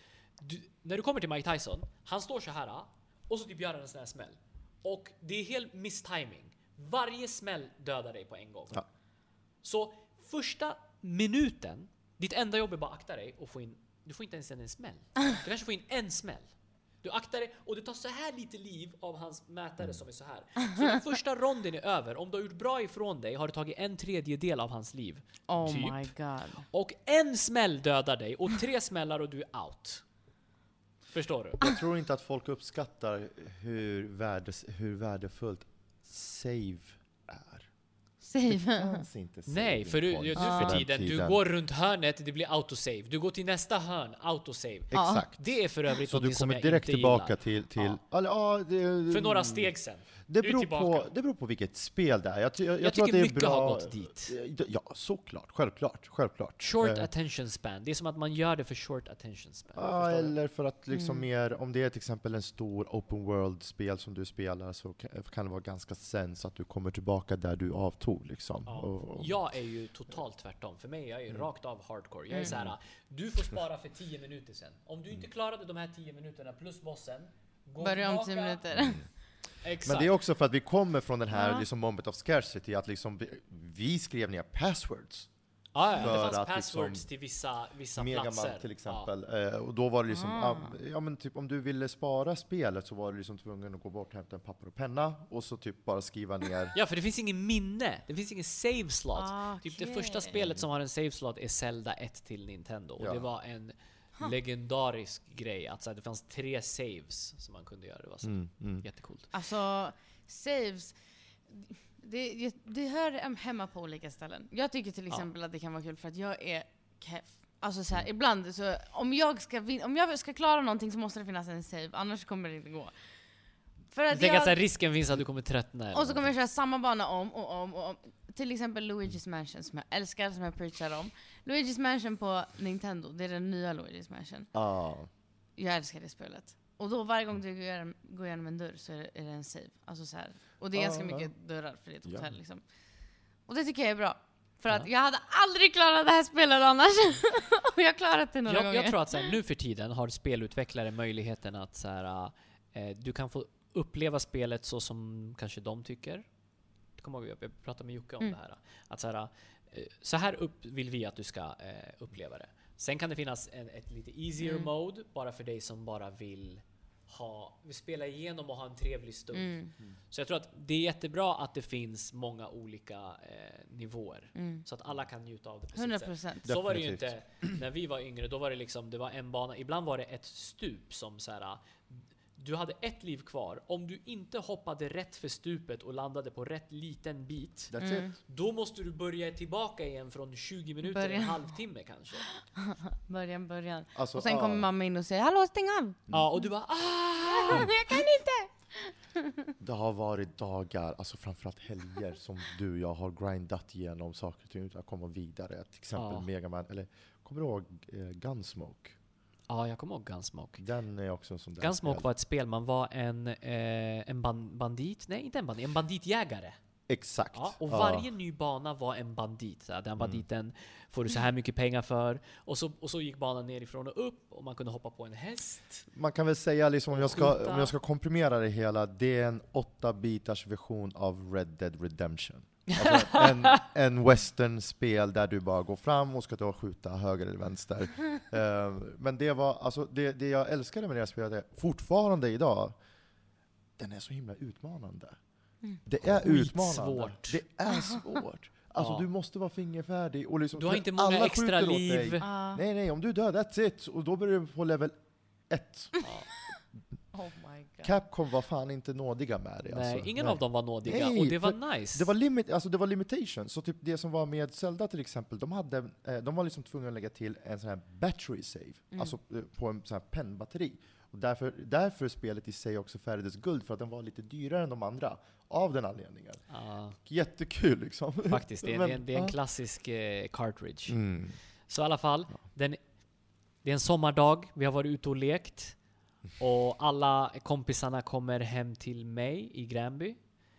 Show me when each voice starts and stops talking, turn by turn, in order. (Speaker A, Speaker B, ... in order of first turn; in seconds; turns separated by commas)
Speaker A: 0.4-8.8, Speaker A: 9.6-30.0, Speaker B: 25.5-26.6, Speaker A: 31.1-31.6, Speaker C: 31.6-37.7, Speaker B: 38.2-39.0, Speaker C: 38.5-41.4, Speaker A: 39.5-48.0, Speaker B: 40.4-40.7, Speaker C: 44.9-49.7, Speaker B: 44.9-45.2, Speaker A: 49.1-51.1, Speaker C: 50.3-57.1, Speaker A: 52.8-54.3, Speaker A: 56.6-60.3, Speaker C: 59.8-69.4, Speaker B: 60.9-61.2, Speaker A: 68.7-78.6, Speaker C: 72.4-72.7, Speaker B: 77.8-79.1, Speaker C: 78.7-79.0, Speaker A: 79.6-80.1, Speaker C: 79.8-85.3, Speaker B: 81.3-81.6, Speaker A: 85.7-89.1, Speaker C: 85.9-87.1, Speaker C: 88.0-96.8, Speaker B: 90.1-90.8, Speaker A: 96.7-109.3, Speaker B: 99.1-100.3, Speaker C: 100.3-100.7, Speaker C: 103.0-103.3, Speaker C: 108.2-108.9, Speaker B: 109.3-123.0, Speaker B: 123.9-124.6, Speaker A: 124.1-126.3, Speaker B: 125.9-134.5, Speaker C: 134.5-135.1, Speaker B: 135.6-142.6, Speaker C: 140.7-141.3, Speaker C: 142.0-142.3, Speaker B: 143.5-149.3, Speaker A: 148.4-156.3, Speaker A: 157.0-187.7, Speaker B: 164.4-164.7, Speaker B: 169.3-169.7, Speaker B: 174.3-174.6, Speaker B: 175.7-176.5, Speaker C: 176.4-177.6, Speaker C: 187.7-188.1, Speaker B: 187.8-188.1, Speaker A: 188.2-192.3, Speaker B: 190.8-191.6, Speaker B: 192.6-196.0, Speaker C: 193.9-194.7, Speaker A: 196.1-198.0, Speaker B: 197.3-199.5, Speaker C: 199.6-208.9, Speaker A: 205.9-206.3, Speaker A: 209.5-210.6, Speaker C: 210.6-212.1, Speaker A: 211.6-216.6, Speaker C: 216.9-218.1, Speaker A: 217.3-225.9, Speaker C: 225.9-242.8, Speaker A: 226.9-227.7, Speaker A: 232.7-233.6, Speaker C: 243.8-245.2, Speaker C: 245.8-254.9, Speaker A: 246.1-247.4, Speaker B: 247.7-248.0, Speaker A: 248.8-249.1, Speaker A: 250.6-252.2, Speaker B: 252.2-252.6, Speaker C: 255.5-256.0, Speaker A: 256.0-256.3, Speaker B: 257.1-257.9, Speaker C: 257.8-276.4, Speaker A: 259.6-262.1, Speaker A: 276.5-277.0, Speaker C: 277.0-279.4, Speaker A: 278.3-281.0, Speaker C: 280.9-281.4, Speaker A: 281.7-282.8, Speaker A: 283.6-285.8, Speaker A: 286.4-290.2